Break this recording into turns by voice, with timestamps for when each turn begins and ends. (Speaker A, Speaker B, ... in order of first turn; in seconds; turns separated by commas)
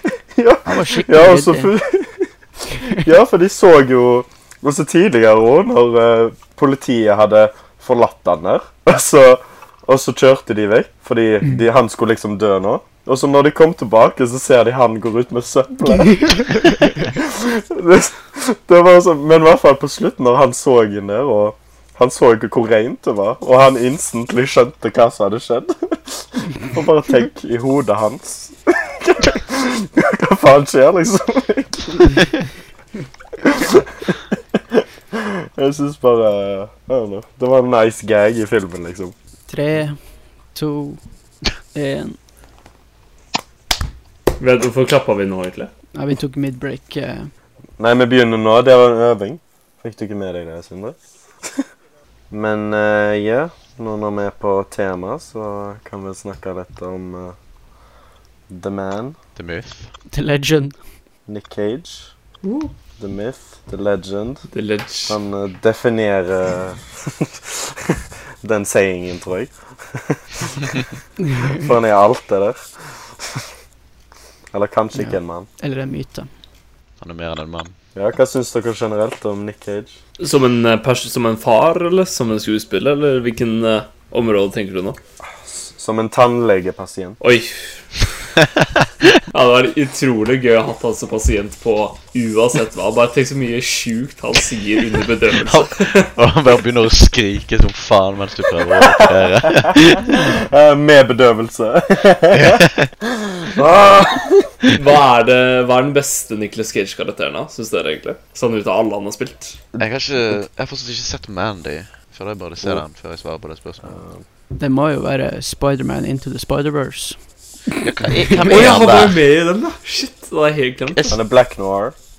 Speaker A: 0.3-2.3, Speaker B: 0.6-1.7, Speaker A: 2.9-32.2, Speaker A: 33.4-39.1, Speaker B: 39.5-40.0, Speaker B: 40.5-41.0, Speaker B: 41.7-42.2, Speaker C: 44.4-45.7, Speaker B: 45.9-47.3, Speaker A: 47.8-51.6, Speaker A: 52.3-57.4, Speaker A: 58.5-59.1, Speaker D: 59.4-59.9, Speaker B: 60.1-60.8, Speaker A: 61.2-62.1, Speaker C: 62.4-62.7, Speaker A: 63.0-64.5, Speaker C: 64.5-65.2, Speaker A: 65.1-70.8, Speaker A: 71.4-73.5, Speaker A: 74.5-75.5, Speaker B: 75.0-76.3, Speaker D: 77.0-77.7, Speaker A: 77.9-80.0, Speaker C: 80.2-85.0, Speaker A: 85.4-87.2, Speaker C: 87.2-88.0, Speaker D: 88.6-89.1, Speaker C: 89.3-96.1, Speaker D: 95.4-100.2, Speaker A: 98.7-104.6, Speaker D: 102.3-102.9, Speaker C: 104.7-109.6, Speaker D: 109.8-114.0, Speaker A: 113.8-114.2, Speaker B: 114.5-117.2, Speaker D: 117.8-119.2, Speaker C: 118.3-121.1, Speaker D: 120.9-121.2, Speaker A: 121.1-122.0